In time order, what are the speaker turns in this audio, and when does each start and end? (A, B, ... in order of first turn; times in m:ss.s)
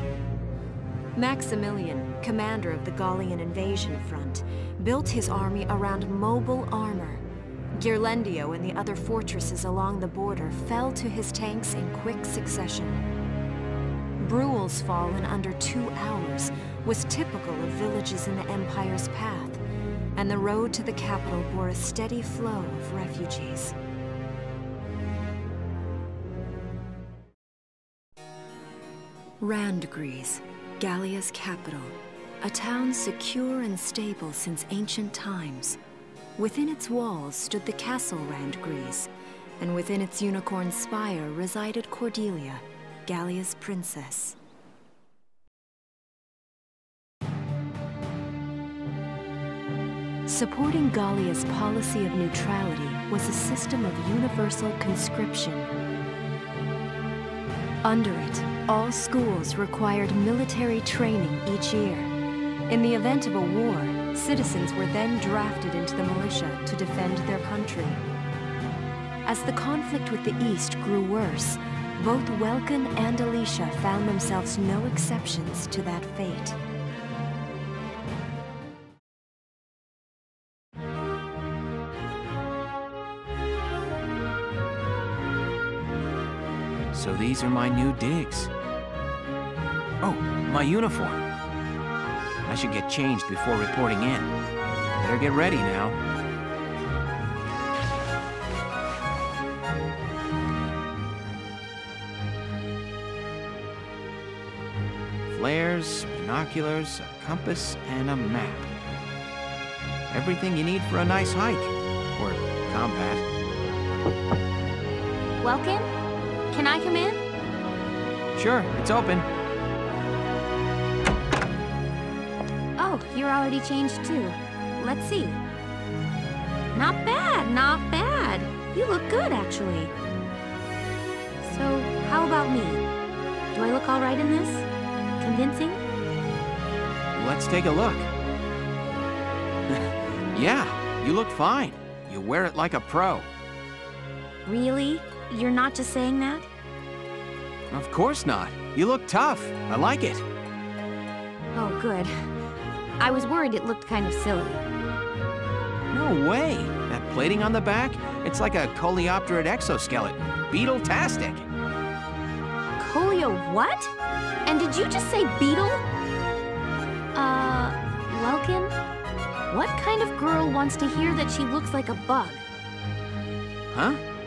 0:01.2-0:07.2 A
0:07.8-0:13.0 A
0:14.2-0:19.6 A
0:20.2-0:23.8 A
0:29.4-0:35.8 A
0:36.4-0:44.4 A
0:50.3-0:55.7 A
0:57.8-1:02.1 A
1:02.7-1:08.0 A
1:09.2-1:16.6 A
1:26.9-1:28.5 B
1:30.0-1:31.2 B
1:32.4-1:34.3 B
1:35.0-1:36.0 B
1:45.3-1:48.7 B
1:50.1-1:53.2 B
1:55.4-1:55.9 C
1:56.5-1:57.2 C
1:58.4-1:59.3 B
2:02.8-2:05.4 C
2:06.7-2:09.9 C
2:11.4-2:12.8 C
2:13.5-2:14.7 C
2:15.2-2:15.8 C
2:17.1-2:18.1 B
2:19.7-2:23.3 B
2:24.5-2:26.5 C
2:27.7-2:30.2 B
2:31.5-2:32.3 C
2:33.0-2:34.6 C
2:35.9-2:41.5 B
2:42.8-2:43.9 C
2:44.4-2:45.8 C
2:47.1-2:48.8 C
2:49.5-2:52.4 C
2:53.7-2:54.0 B